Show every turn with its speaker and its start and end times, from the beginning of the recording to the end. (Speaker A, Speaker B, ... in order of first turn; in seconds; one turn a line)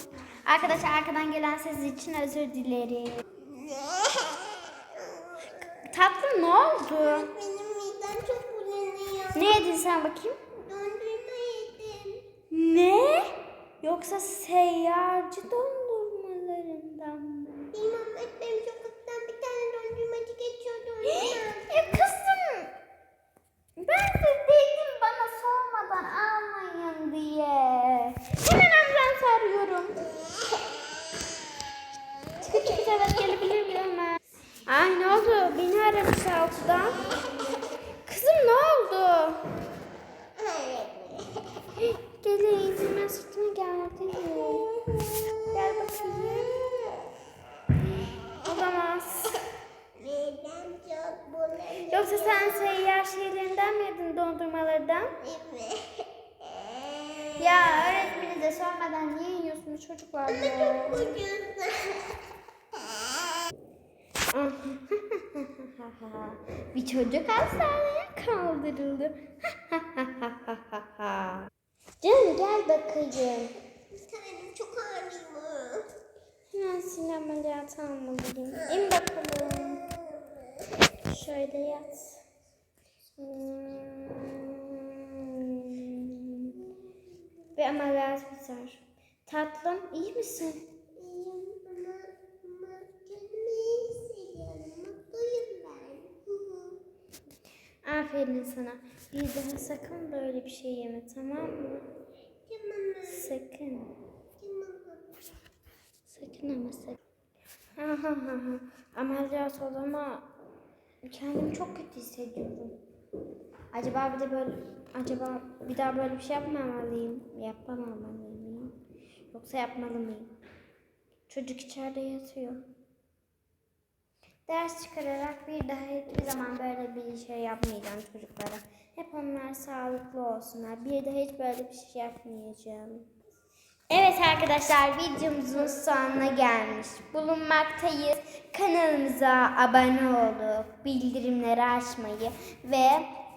Speaker A: 0.4-3.2
Speaker B: 3.4-5.8
Speaker A: 5.8-7.3
Speaker B: 7.0-9.7
Speaker A: 9.3-10.3
Speaker B: 10.6-12.2
Speaker A: 12.5-17.7
Speaker B: 17.7-22.1
Speaker A: 21.1-22.7
Speaker A: 23.8-30.0
Speaker A: 32.4-37.0
Speaker A: 38.0-39.5
Speaker B: 40.4-41.6
Speaker A: 41.8-44.7
Speaker B: 44.3-47.0
Speaker A: 45.5-46.7
Speaker A: 48.4-49.4
Speaker B: 50.0-52.8
Speaker A: 51.9-55.1
Speaker B: 55.2-57.4
Speaker A: 57.4-61.2
Speaker B: 60.2-62.2
Speaker A: 64.3-71.5
Speaker A: 72.0-73.5
Speaker B: 73.9-75.9
Speaker A: 76.5-79.8
Speaker B: 79.5-80.4
Speaker A: 81.0-82.2
Speaker A: 83.2-86.6
Speaker A: 87.5-90.6
Speaker B: 90.9-96.8
Speaker A: 97.8-101.8
Speaker B: 102.5-103.3
Speaker A: 103.0-103.9
Speaker B: 104.4-105.3
Speaker A: 106.1-107.0
Speaker A: 107.8-110.2
Speaker A: 111.0-112.8
Speaker A: 113.7-118.7
Speaker A: 119.3-120.3
Speaker A: 121.3-122.6
Speaker A: 124.5-133.1
Speaker A: 133.9-143.1